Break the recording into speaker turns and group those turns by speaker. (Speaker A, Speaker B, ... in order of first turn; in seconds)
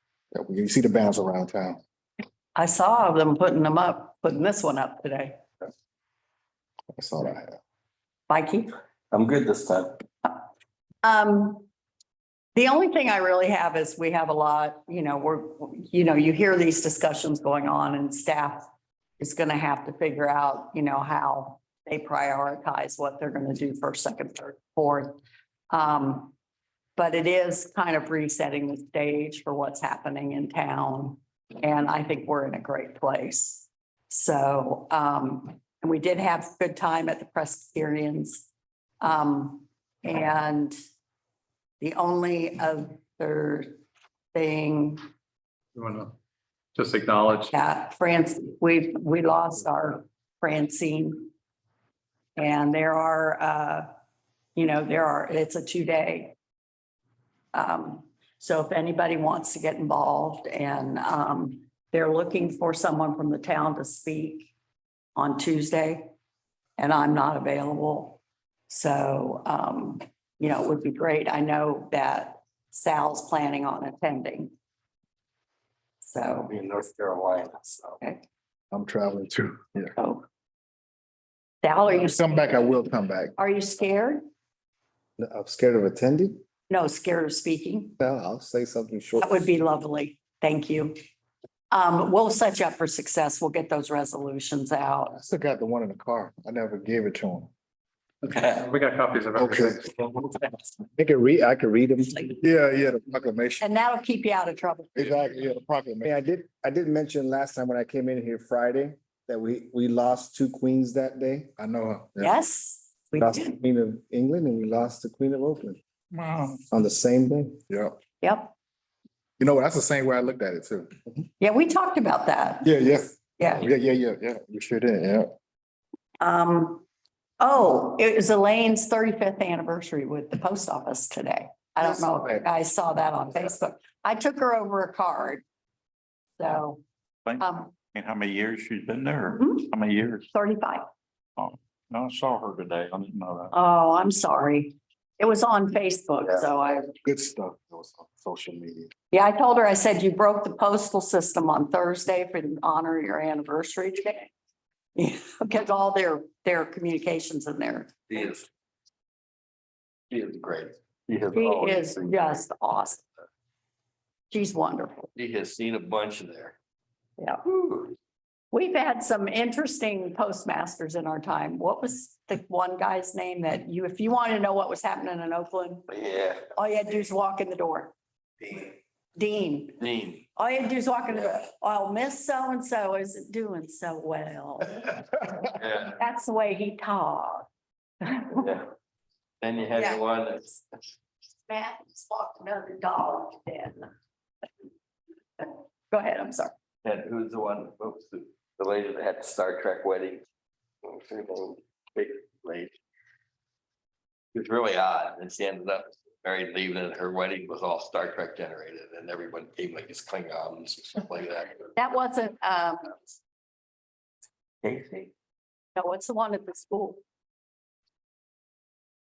Speaker A: 0.3-1.8, 7.0-7.6, 78.7-79.9, 81.9-83.3, 95.2-97.5, 99.4-99.8, 102.4-103.6, 105.0-106.1, 111.6-112.3, 119.4-120.9, 122.6-125.3, 131.8-132.4, 147.0-148.9
Speaker B: 2.5-5.4, 8.3-8.7, 11.0-11.7, 12.5-18.7, 19.2-25.2, 25.7-26.3, 26.9-38.5, 39.0-40.8, 41.8-43.8, 44.3-45.0, 47.5-51.3, 52.4-53.9, 54.5-56.4, 57.5-64.5, 65.2-66.1, 66.8-74.5, 76.0-76.5, 80.0-80.2, 81.6-82.7, 83.3-84.2, 86.7-88.0, 89.2-91.0, 91.7-95.1, 102.1-102.4, 103.6-105.2, 112.2-113.5, 118.2-118.5, 121.4-123.7, 126.2-126.8, 127.4-135.4, 136.4-136.8, 137.4-137.7, 139.4-139.7, 140.3-140.8, 143.5-146.9, 149.1-154.3, 154.9-158.0, 161.3-163.1, 164.3-165.1, 167.2-167.4, 168.5-175.9, 176.5-177.9, 179.2-179.8, 180.3-185.3, 185.9-187.5, 188.0-188.5, 189.8-190.0, 191.4-193.9, 195.4-196.5, 211.8-212.9, 215.8-217.0
Speaker C: 9.1-10.0, 76.4-78.0, 158.1-158.5, 160.1-162.4, 165.1-166.6, 167.5-167.9, 175.9-176.5, 179.8-180.2, 185.6-186.0, 188.3-188.7, 189.4-190.5, 196.8-200.2, 200.8-202.7, 204.3-211.7, 214.6-215.1
Speaker D: 45.8-46.1, 46.7-47.5, 98.2-100.3
Speaker E: 85.2-86.4, 88.0-89.5, 100.6-102.1, 106.0-111.5, 113.2-115.8, 116.7-117.6
Speaker F: 116.1-116.6, 137.2-140.3, 141.4-143.5